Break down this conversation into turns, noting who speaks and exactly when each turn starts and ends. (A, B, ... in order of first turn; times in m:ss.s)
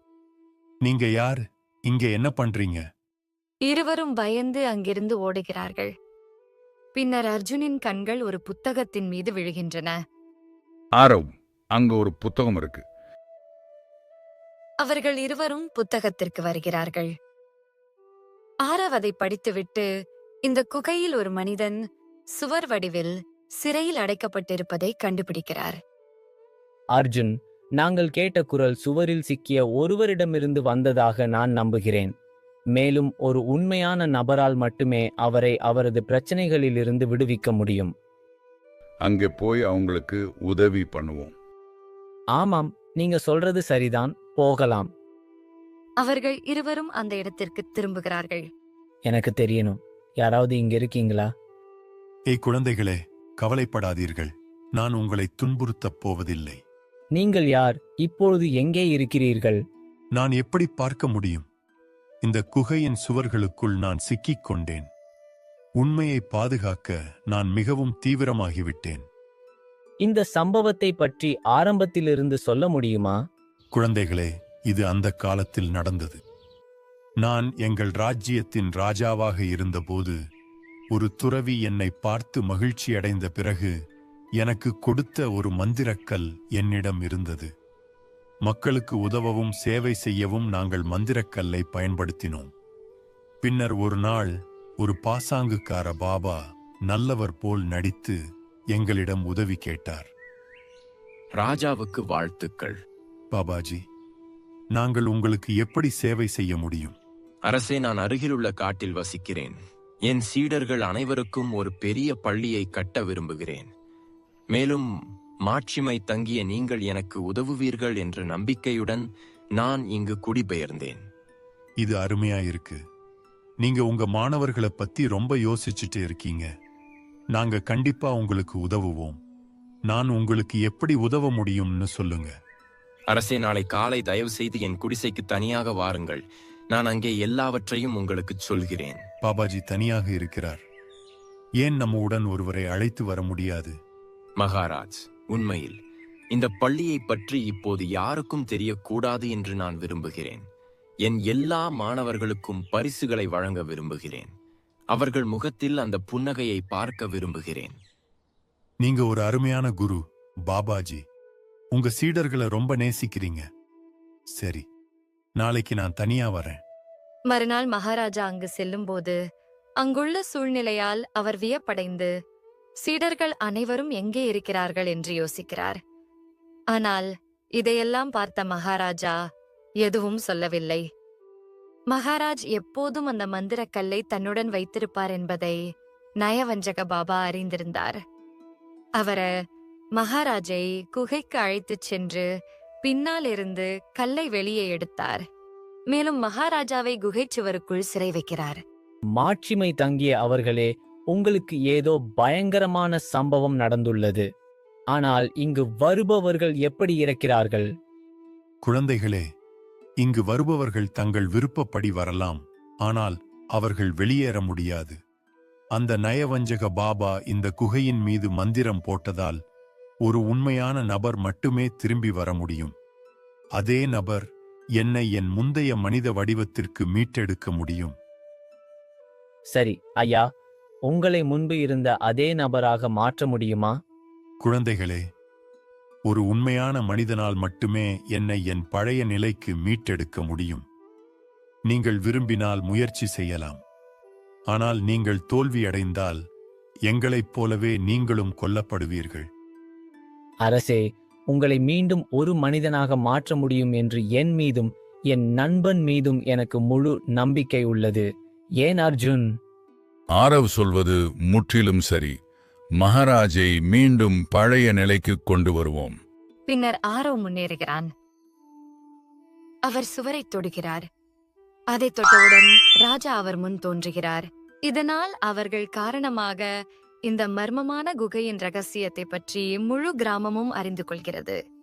0:00.8-0:02.8 A
0:03.6-0:05.9 B
0:07.0-0:10.0 B
0:11.0-0:12.8 C
0:14.8-0:17.1 B
0:18.6-0:19.9 B
0:20.4-0:21.8 B
0:22.4-0:25.8 B
0:27.0-0:32.1 D
0:32.7-0:37.9 D
0:39.0-0:41.4 C
0:42.4-0:44.9 D
0:46.0-0:48.4 B
0:49.1-0:51.3 D
0:52.3-0:56.6 A
0:57.1-0:59.6 D
1:00.2-1:01.5 A
1:02.2-1:04.9 A
1:05.8-1:09.0 A
1:10.0-1:13.2 D
1:13.7-1:16.2 A
1:17.2-1:20.2 A
1:20.9-1:23.7 A
1:24.4-1:27.5 A
1:28.4-1:32.5 A
1:33.4-1:34.3 A
1:34.8-1:38.2 A
1:38.7-1:40.1 A
1:41.4-1:42.8 E
1:43.3-1:43.8 A
1:44.7-1:47.0 A
1:47.5-1:49.6 E
1:50.1-1:53.7 E
1:54.5-1:54.8 E
1:55.5-1:59.0 E
1:59.6-2:01.0 E
2:01.8-2:02.8 A
2:03.6-2:06.5 A
2:07.3-2:09.2 A
2:09.9-2:12.3 A
2:13.1-2:19.0 E
2:19.2-2:20.6 A
2:21.6-2:23.7 A
2:24.4-2:25.8 E
2:26.3-2:30.4 E
2:31.0-2:34.3 E
2:34.9-2:37.8 E
2:38.8-2:41.0 A
2:41.7-2:43.4 A
2:44.4-2:44.7 A
2:45.4-2:46.6 A
2:47.3-2:49.2 B
2:49.8-2:52.1 B
2:52.8-2:55.8 B
2:56.7-2:59.2 B
2:59.8-3:00.8 B
3:01.9-3:05.6 B
3:06.2-3:08.0 B
3:09.0-3:09.3 B
3:10.0-3:12.3 B
3:12.8-3:15.2 B
3:15.9-3:18.6 B
3:19.2-3:24.3 D
3:24.9-3:27.7 D
3:28.6-3:29.2 A
3:30.0-3:35.0 A
3:35.8-3:39.4 A
3:40.0-3:42.7 A
3:43.6-3:44.2 A
3:44.8-3:47.9 A
3:49.5-3:50.3 D
3:50.9-3:53.8 D
3:54.4-3:55.0 A
3:56.1-4:00.6 A
4:01.7-4:03.6 A
4:04.5-4:06.2 A
4:06.9-4:09.2 A
4:10.4-4:18.1 D
4:18.6-4:19.3 D
4:20.1-4:22.2 C
4:22.8-4:26.0 C
4:26.5-4:27.9 B
4:29.7-4:30.8 B
4:31.7-4:36.5 B
4:37.1-4:41.4 B